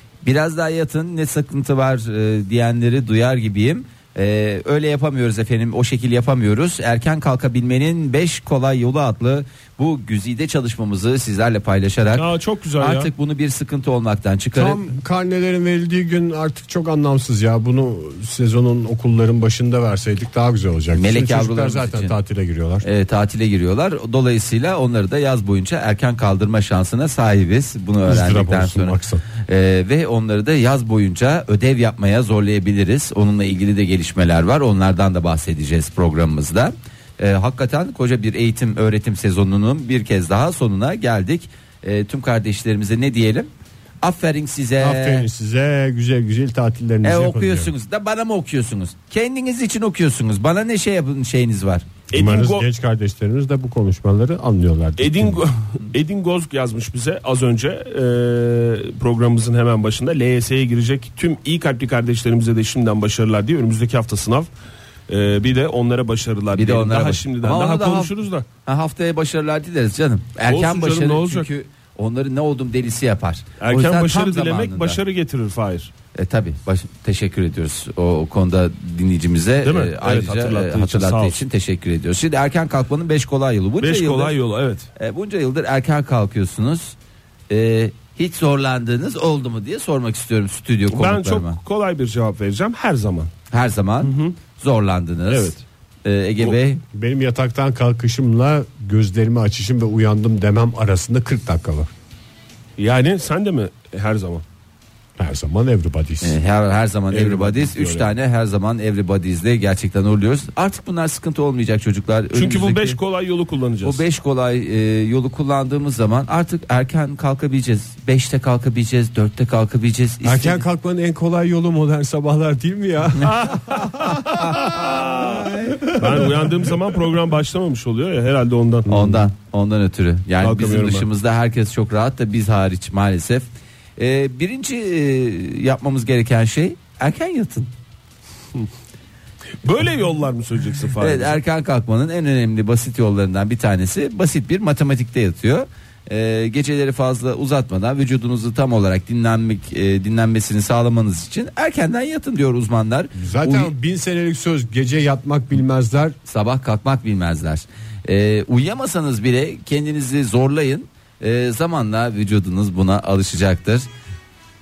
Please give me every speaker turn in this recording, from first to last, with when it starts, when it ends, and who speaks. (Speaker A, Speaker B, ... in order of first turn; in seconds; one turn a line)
Speaker A: 0.2-12.3
Speaker B: 12.1-13.1
Speaker A: 12.8-14.8
Speaker C: 14.6-22.9
Speaker A: 20.9-22.2
Speaker A: 22.8-43.5
Speaker C: 28.0-29.2
Speaker A: 44.0-45.3
Speaker C: 44.8-47.7
Speaker A: 47.0-51.9
Speaker B: 52.1-52.7
Speaker C: 52.1-55.4
Speaker B: 55.0-64.5
Speaker B: 65.1-68.5
Speaker A: 66.5-68.1
Speaker A: 68.7-75.0
Speaker B: 70.5-71.5
Speaker B: 73.6-75.9
Speaker A: 76.1-84.3
Speaker B: 79.6-81.4
Speaker B: 83.8-84.9
Speaker A: 85.0-87.0
Speaker A: 87.5-91.6
Speaker B: 90.9-93.3
Speaker A: 93.5-96.8
Speaker B: 94.0-94.4
Speaker B: 95.3-95.6
Speaker C: 96.9-101.9
Speaker B: 102.8-104.4
Speaker C: 105.2-106.4
Speaker A: 106.2-113.0
Speaker C: 107.1-108.1
Speaker B: 112.3-114.0
Speaker A: 113.8-120.6
Speaker C: 120.2-126.5
Speaker B: 123.2-128.9
Speaker A: 124.4-126.0
Speaker C: 128.9-129.3
Speaker A: 128.9-137.7
Speaker B: 130.4-131.1
Speaker B: 139.6-141.4
Speaker A: 141.0-153.7
Speaker C: 153.2-156.2
Speaker A: 156.3-163.9